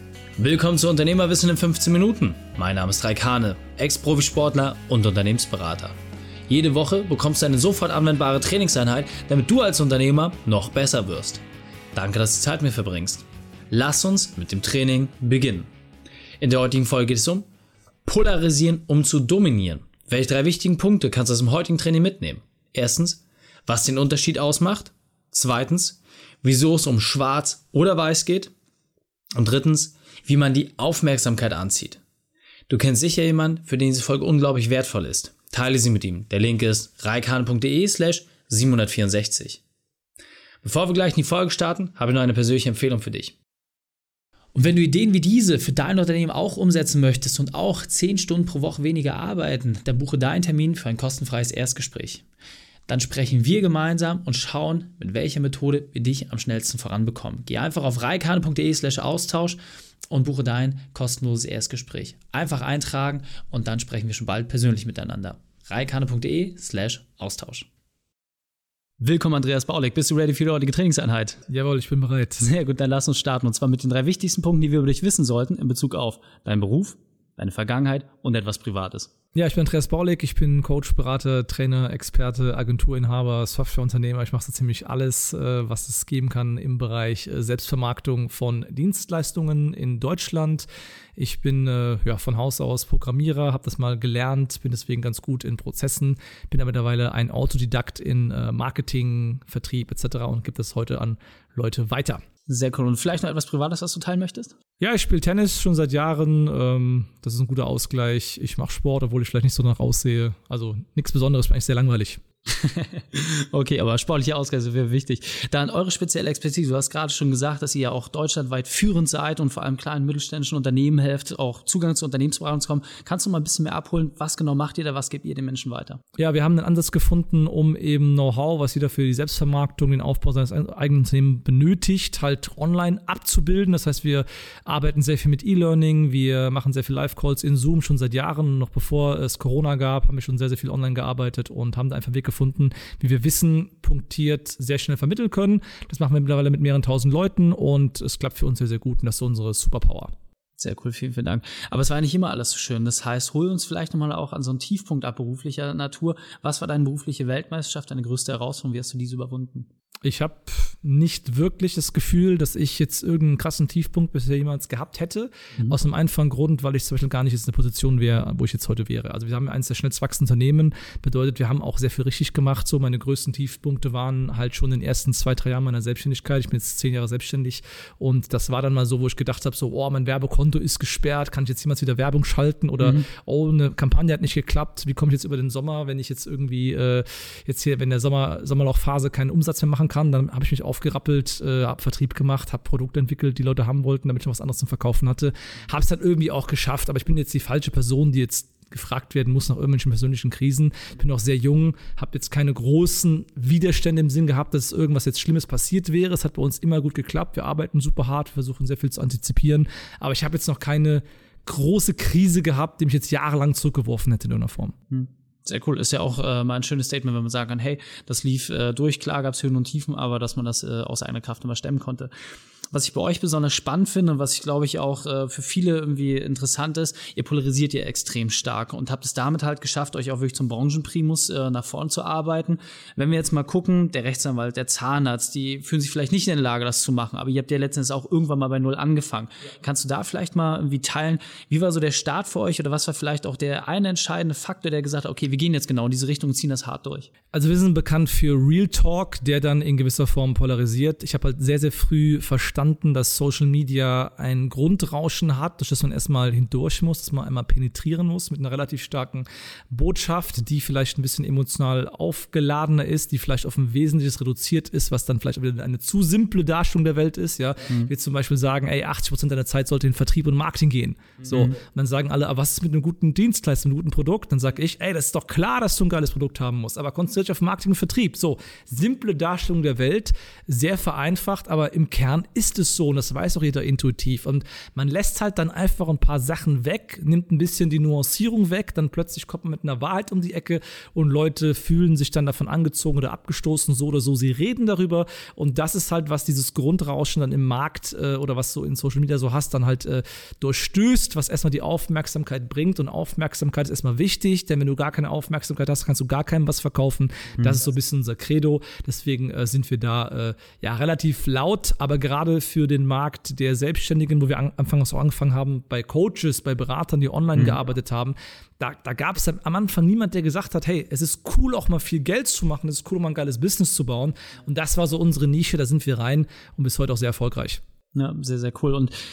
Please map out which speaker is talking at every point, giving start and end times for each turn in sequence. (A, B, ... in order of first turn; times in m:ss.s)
0:00.4-0:06.0 A
0:06.5-0:15.7 A
0:16.4-0:17.5 A
0:18.1-0:28.5 A
0:29.4-0:32.0 A
0:32.7-0:39.6 A
0:40.6-0:43.4 A
0:44.6-0:52.2 A
0:52.9-0:59.6 A
1:00.1-1:07.7 A
1:09.0-1:11.4 A
1:11.5-1:12.5 B
1:12.4-1:19.1 A
1:19.4-1:42.2 B
1:42.5-1:44.6 A
1:44.8-1:52.2 B
1:52.5-2:06.0 A
2:06.2-2:30.1 B
2:30.6-2:39.7 A
2:40.0-3:34.7 B
3:02.8-3:03.1 A
3:34.9-3:42.1 A
3:42.7-4:07.1 A
4:07.3-5:27.6 B
4:31.2-4:31.6 A
5:27.9-5:28.9 A